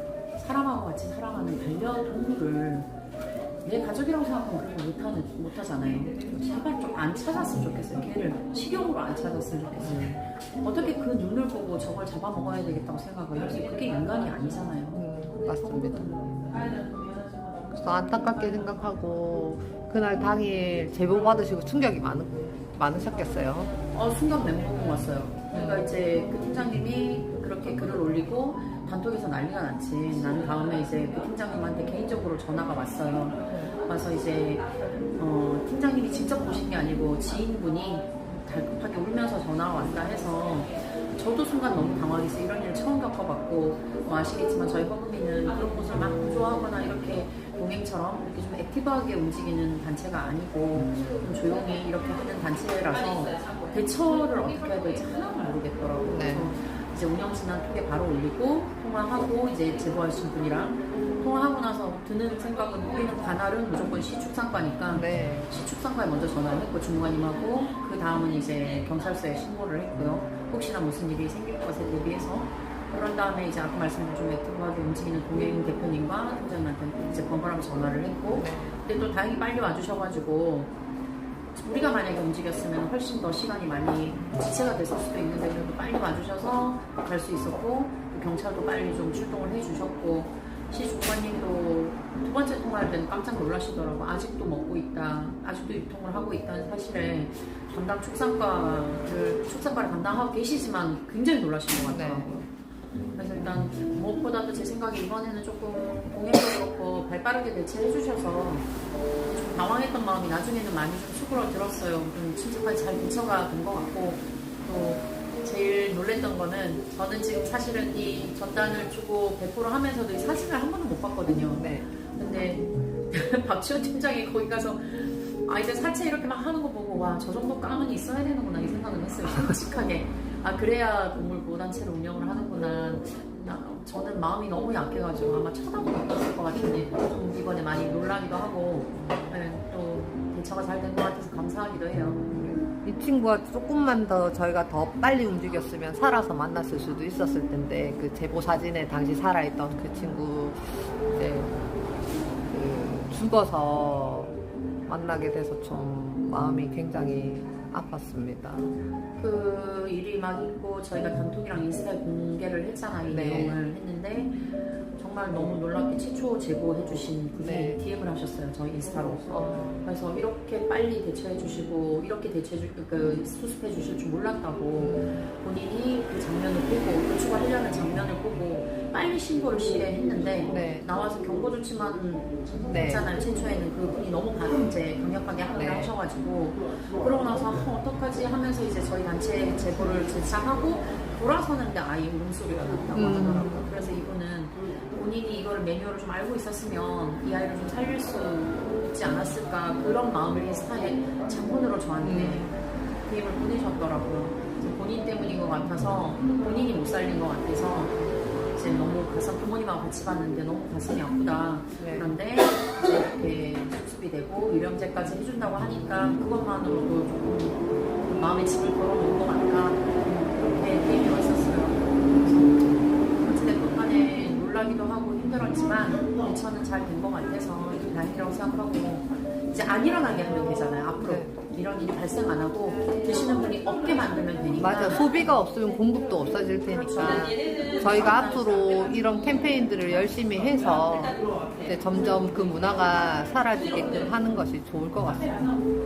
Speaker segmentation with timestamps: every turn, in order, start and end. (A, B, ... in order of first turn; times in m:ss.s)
0:00.4-0:02.9 A
0:03.6-0:15.0 A
0:09.8-0:10.2 B
0:14.9-0:16.8 B
0:17.7-0:23.7 B
0:23.9-1:20.7 A
0:25.5-0:25.9 B
0:33.4-0:33.8 B
0:56.1-0:56.5 B
1:04.9-1:05.5 B
1:18.4-1:18.8 B
1:21.5-1:42.5 A
1:41.9-1:42.4 B
1:43.2-1:48.7 A
1:49.3-2:22.2 A
2:01.6-2:01.9 B
2:19.0-2:19.3 B
2:22.3-2:31.6 B
2:32.4-2:38.7 B
2:39.2-2:44.5 A
2:43.1-2:43.6 B
2:45.0-3:22.5 A
2:47.3-2:47.8 B
2:49.3-2:49.8 B
2:54.8-2:55.3 B
3:00.5-3:00.9 B
3:02.7-3:03.0 B
3:05.5-3:05.9 B
3:12.9-3:13.7 B
3:22.0-3:22.6 B
3:23.0-3:28.0 A
3:28.5-3:55.2 A
3:31.8-3:32.1 B
3:42.1-3:42.4 B
3:51.0-3:51.3 B
3:54.5-4:05.6 B
3:56.7-3:58.5 A